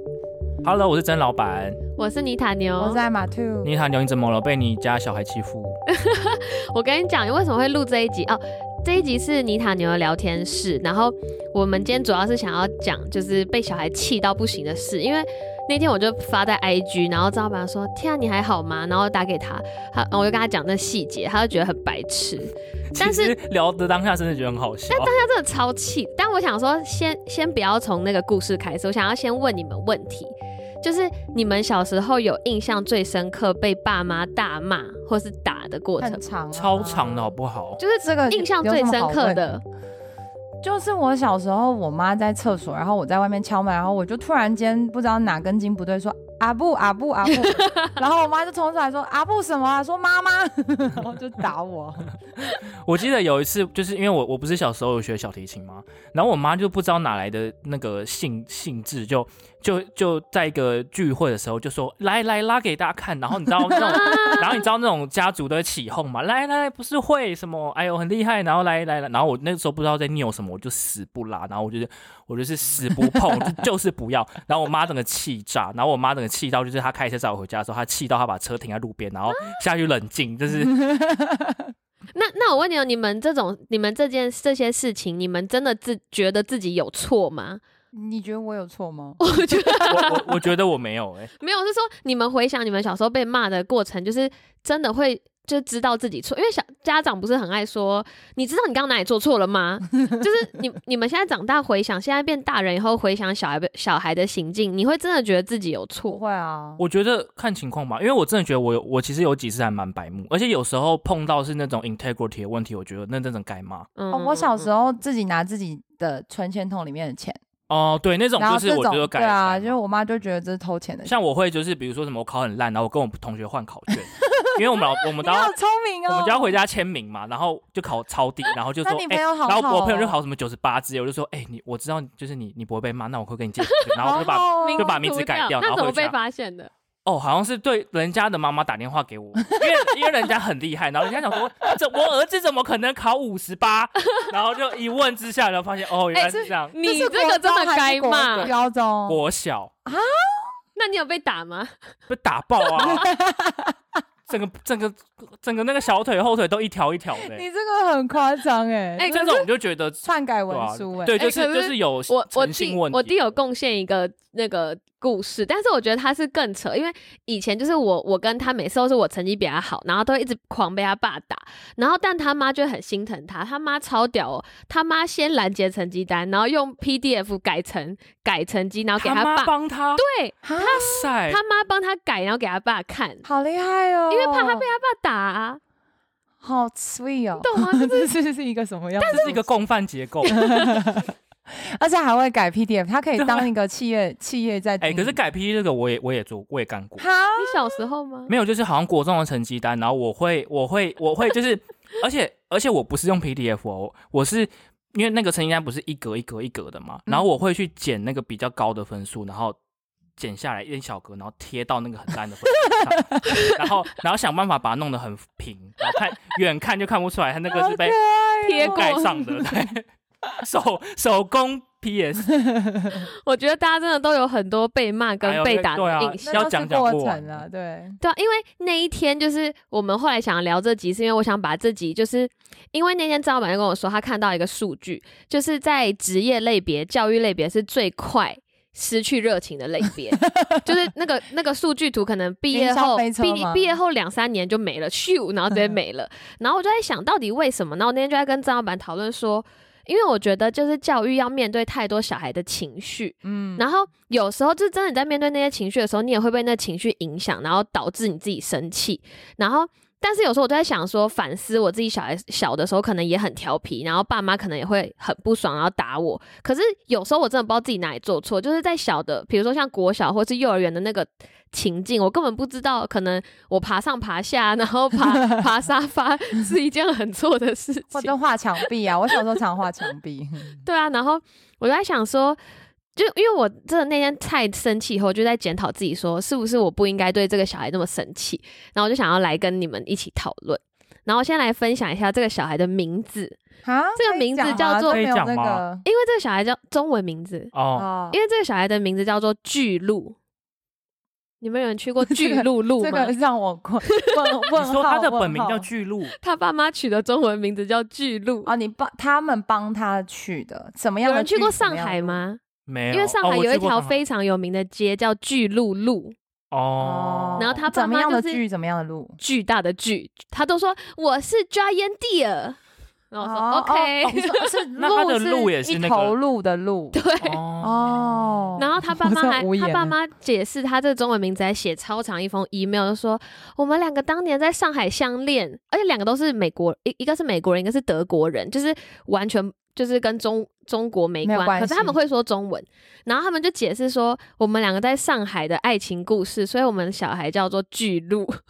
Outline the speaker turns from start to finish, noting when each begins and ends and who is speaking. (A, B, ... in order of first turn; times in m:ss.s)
0:00.6-0:01.8 A
0:02.0-0:03.0 B
0:02.8-0:03.7 C
0:03.6-0:05.8 A
0:05.9-0:23.3 B
0:22.9-0:25.1 A
0:24.9-0:36.2 B
0:36.0-0:37.3 C
0:36.5-0:37.8 A
0:37.8-0:39.6 B
0:38.0-0:39.5 C
0:40.6-0:52.1 C
0:47.4-0:47.9 B
0:52.8-1:20.9 A
1:03.7-1:04.6 B
1:03.9-1:04.3 C
1:19.3-1:19.6 B
1:20.6-1:21.6 C
1:22.1-1:27.6 B
1:27.9-1:29.2 C
1:29.2-1:30.2 B
1:29.9-1:31.3 A
1:31.4-1:46.2 B
1:46.0-1:46.8 C
1:46.8-1:53.9 A
1:54.0-1:54.7 B
1:54.1-1:57.4 C
1:57.7-1:59.8 A
1:58.4-2:01.1 C
2:01.0-2:05.5 A
2:04.2-2:06.6 C
2:06.1-2:16.1 A
2:08.8-2:10.2 C
2:13.6-2:16.7 B
2:14.0-2:15.0 C
2:17.0-2:26.8 A
2:26.1-2:28.5 B
2:26.3-2:29.2 C
2:29.0-2:29.7 A
2:29.8-2:30.5 C
2:30.8-2:31.7 B
2:32.1-2:33.1 A
2:32.8-2:33.7 C
2:34.3-2:37.4 A
2:37.2-2:39.1 C
2:39.0-2:39.5 B
2:39.0-2:43.1 A
2:40.0-2:41.2 C
2:41.2-3:03.2 B
2:59.0-3:00.0 A
3:00.4-3:01.0 C
3:00.6-3:01.4 A
3:03.2-3:04.6 C
3:04.1-3:05.6 B
3:06.4-3:09.4 C
3:07.4-3:08.1 B
3:09.0-3:09.3 B
3:09.0-3:10.4 A
3:10.2-3:10.8 B
3:10.3-3:15.2 C
3:13.2-3:13.5 A
3:14.8-3:17.0 A
3:17.0-3:17.8 C
3:17.4-3:18.3 B
3:18.3-3:29.6 A
3:30.2-3:38.0 A
3:37.5-3:39.4 C
3:38.4-3:39.2 B
3:38.6-3:42.3 A
3:42.4-3:43.0 C
3:42.9-3:46.5 B
3:45.2-3:47.4 A
3:46.2-3:48.0 C
3:48.0-4:38.1 B
4:02.5-4:03.7 C
4:13.2-4:13.6 C
4:37.9-4:40.6 C
4:40.6-4:42.4 B
4:42.9-4:53.4 B
4:53.6-4:55.8 C
4:54.0-4:55.1 B
4:54.5-4:55.6 A
4:55.8-4:57.5 B
4:57.5-4:57.9 A
4:57.7-4:58.2 C
4:58.1-5:00.2 B
5:01.4-5:03.1 B
5:02.0-5:05.6 C
5:04.5-5:06.1 A
5:06.2-5:08.5 B
5:08.4-5:12.2 C
5:11.0-5:16.1 B
5:12.7-5:14.0 A
5:16.5-5:17.6 A
5:16.8-5:19.2 C
5:17.4-5:18.4 B
5:19.2-5:22.6 B
5:23.1-5:24.3 B
5:23.2-5:27.0 C
5:24.8-5:26.2 A
5:26.9-5:27.4 B
5:27.2-5:28.5 A
5:27.6-5:30.0 C
5:28.6-5:48.3 B
5:41.2-5:42.0 C